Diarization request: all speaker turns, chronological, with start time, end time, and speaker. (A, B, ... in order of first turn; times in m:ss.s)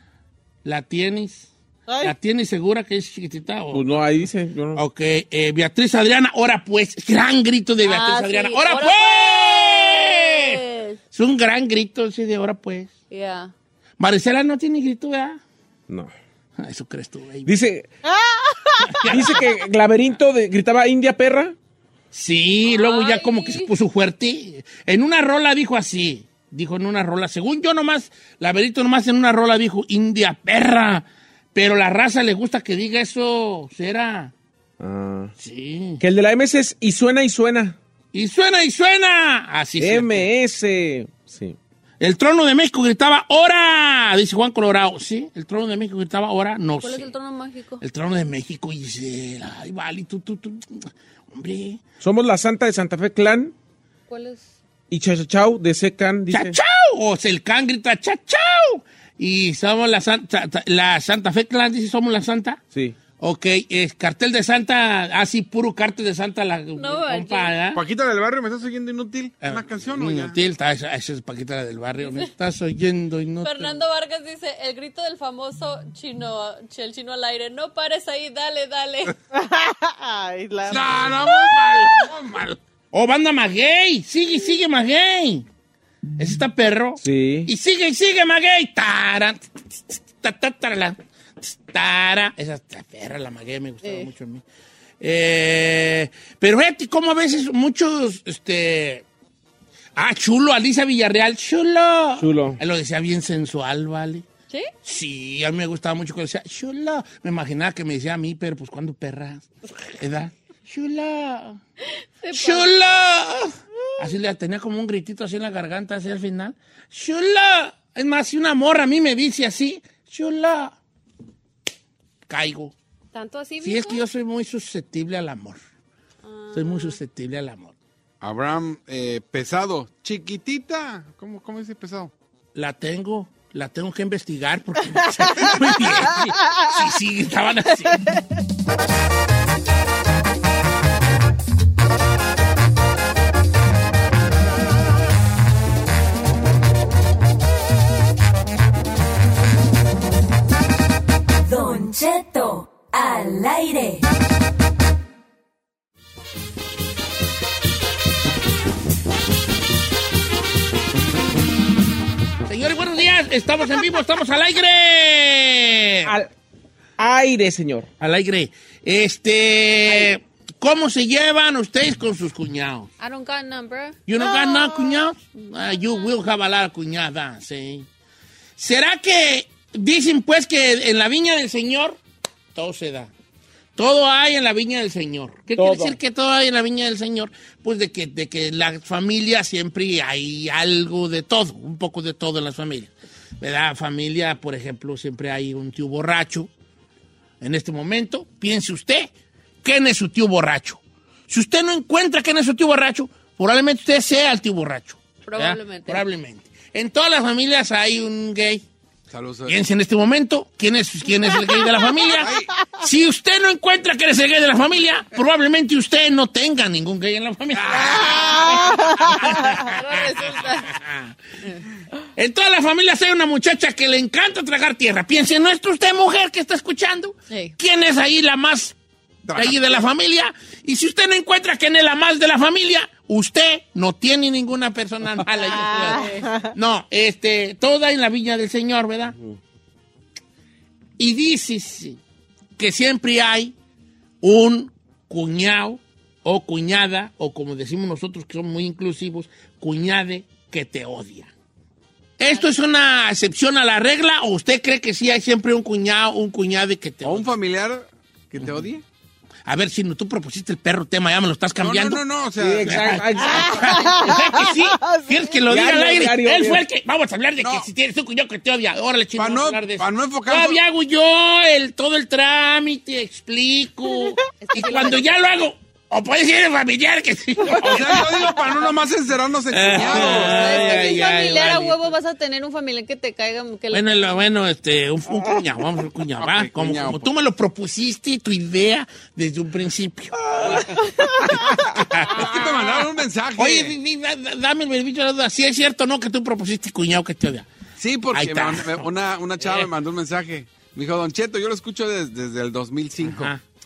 0:00.6-0:01.5 A
0:01.9-0:02.2 B
0:02.0-0:04.0 A
0:03.7-0:04.8 C
0:04.7-0:10.6 A
0:07.8-0:11.0 D
0:11.1-0:12.9 A
0:13.1-0:13.5 D
0:14.0-0:15.4 A
0:16.6-0:17.5 A
0:17.4-0:17.9 C
0:18.0-0:19.1 B
0:18.8-0:19.6 A
0:19.0-0:21.5 C
0:22.1-0:34.3 A
0:22.6-0:23.7 D
0:34.8-0:35.3 C
0:35.4-0:36.0 A
0:36.0-0:37.8 C
0:38.1-0:40.3 A
0:39.8-0:41.6 C
0:42.0-0:47.1 A
0:46.8-0:47.8 D
0:47.8-0:51.8 A
0:52.0-0:53.5 C
0:54.1-0:54.5 D
0:54.9-0:56.6 C
0:56.3-1:02.6 A
1:03.2-1:07.8 A
1:06.8-1:07.6 D
1:07.7-1:10.4 E
1:09.4-1:13.8 A
1:13.4-1:19.1 D
1:19.3-1:21.3 B
1:20.6-1:22.6 E
1:21.5-1:21.9 D
1:22.9-1:25.4 A
1:26.2-1:34.4 A
1:27.0-1:27.5 C
1:33.8-1:34.1 D
1:35.0-1:39.0 A
1:40.0-1:44.2 A
1:42.2-1:42.6 C
1:44.8-1:51.6 A
1:52.2-1:53.0 D
1:52.3-2:00.8 A
2:02.3-2:02.7 A
2:03.1-2:04.0 D
2:03.6-2:05.6 A
2:06.2-2:07.0 D
2:06.5-2:07.7 A
2:08.2-2:12.1 E
2:12.5-2:18.1 A
2:31.4-2:34.1 F
2:42.5-2:46.1 A
2:46.0-2:46.3 C
2:47.0-2:47.9 C
2:48.0-2:52.9 A
2:53.0-2:54.8 D
2:54.1-2:57.9 A
2:54.4-2:55.0 B
2:55.4-2:56.1 D
2:58.6-3:02.0 A
3:02.5-3:03.1 A
3:03.8-3:16.5 A
3:05.6-3:06.0 C
3:17.4-3:19.1 A
3:19.6-3:28.6 A
3:25.3-3:26.0 D
3:29.1-3:29.6 E
3:29.5-3:41.2 A
3:31.4-3:32.0 B
3:32.1-3:32.5 E
3:37.5-3:38.8 E
3:38.2-3:39.5 B
3:39.4-3:40.8 D
3:42.2-3:48.8 A
3:47.3-3:47.5 D
3:49.2-3:49.8 E
3:49.3-3:59.2 A
3:55.4-3:56.6 B
3:55.7-3:56.3 D
4:01.0-4:02.0 A
4:02.6-4:03.5 A
4:04.2-4:11.3 A
4:12.2-4:17.3 A
4:17.0-4:18.8 E
4:19.4-4:22.0 A
4:21.6-4:22.8 E
4:22.4-4:23.7 C
4:22.6-4:38.5 A
4:23.2-4:25.4 B
4:25.5-4:26.6 C
4:27.4-4:27.7 E
4:29.2-4:30.6 E
4:34.4-4:35.0 D
4:37.6-4:40.6 E
4:39.5-4:41.8 A
4:39.9-4:44.0 D
4:43.7-4:52.8 A
4:46.2-4:47.1 E
4:50.8-4:51.1 B
4:52.0-4:53.7 E
4:53.4-4:57.5 A
4:57.8-5:03.3 E
4:58.1-4:58.8 A
5:03.0-5:03.4 A